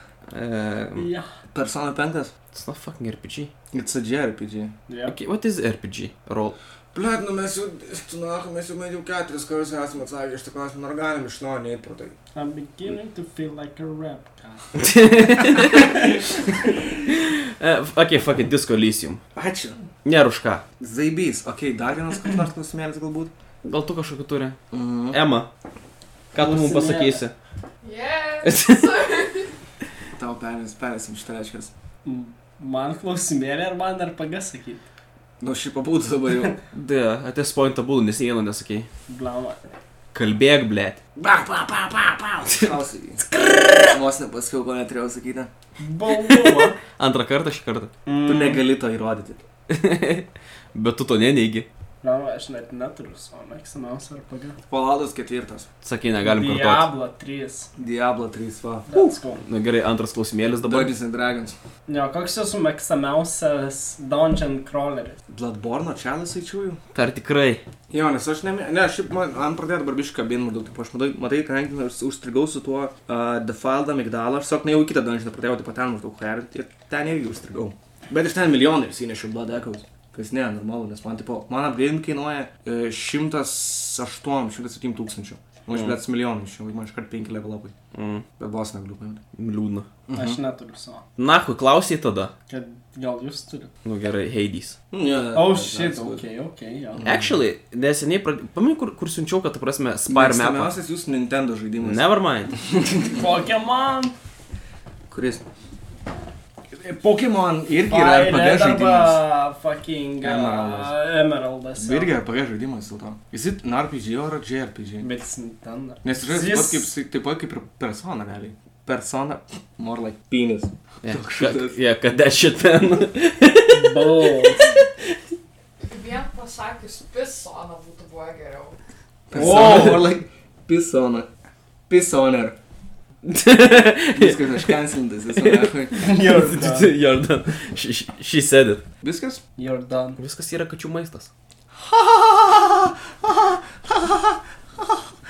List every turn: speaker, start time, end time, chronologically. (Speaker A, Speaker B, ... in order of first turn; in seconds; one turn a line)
Speaker A: 0.3-1.1
Speaker B: 1.0-1.3
Speaker C: 1.5-2.3
Speaker A: 2.5-3.5
Speaker C: 3.7-4.7
Speaker B: 4.9-5.2
Speaker A: 5.1-6.5
Speaker C: 6.9-12.2
Speaker B: 12.3-14.8
Speaker A: 14.8-16.1
Speaker B: 15.6-16.2
Speaker A: 17.1-19.2
Speaker C: 19.4-19.8
Speaker A: 20.1-20.6
Speaker C: 20.8-23.3
Speaker A: 23.6-24.6
Speaker C: 24.7-25.2
Speaker A: 25.1-25.5
Speaker A: 26.3-27.4
Speaker B: 26.4-27.2
Speaker D: 27.8-29.5
Speaker A: 28.4-28.9
Speaker C: 30.2-31.7
Speaker B: 32.0-34.8
Speaker C: 35.4-36.6
Speaker A: 36.7-38.9
Speaker B: 39.1-39.6
Speaker A: 40.1-41.0
Speaker C: 41.2-43.3
Speaker C: 43.9-45.5
Speaker B: 45.8-46.8
Speaker A: 46.3-47.9
Speaker B: 48.1-48.6
Speaker C: 48.2-49.4
Speaker A: 49.7-51.7
Speaker B: 52.0-54.6
Speaker C: 54.7-55.7
Speaker A: 55.8-56.9
Speaker B: 56.2-57.7
Speaker C: 57.8-58.9
Speaker B: 58.9-59.4
Speaker A: 58.9-60.9
Speaker C: 60.6-61.6
Speaker B: 61.9-65.2
Speaker C: 65.3-66.8
Speaker A: 66.9-67.6
Speaker C: 67.9-87.7
Speaker A: 85.7-86.0
Speaker A: 87.9-88.2
Speaker C: 88.4-89.2
Speaker A: 89.3-89.9
Speaker C: 90.1-90.4
Speaker B: 90.1-91.0
Speaker A: 91.2-92.3
Speaker B: 92.5-93.7
Speaker A: 93.8-94.8
Speaker C: 94.9-96.2
Speaker B: 95.3-97.1
Speaker C: 97.0-97.3
Speaker A: 97.0-100.7
Speaker C: 100.1-102.0
Speaker A: 101.8-102.5
Speaker C: 102.7-103.2
Speaker B: 103.0-104.1
Speaker C: 105.1-105.4
Speaker C: 106.7-109.2
Speaker B: 107.9-112.1
Speaker C: 110.2-110.9
Speaker C: 111.8-115.1
Speaker B: 115.0-116.9
Speaker C: 116.0-121.8
Speaker A: 121.0-125.2
Speaker B: 123.7-124.8
Speaker D: 125.8-128.8
Speaker C: 129.3-131.3
Speaker A: 129.3-130.1
Speaker B: 129.4-130.1
Speaker C: 131.9-132.6
Speaker A: 133.2-138.8
Speaker C: 134.1-136.2
Speaker B: 135.9-136.9
Speaker C: 139.0-139.4
Speaker B: 139.6-140.2
Speaker A: 140.2-141.3
Speaker C: 141.8-144.8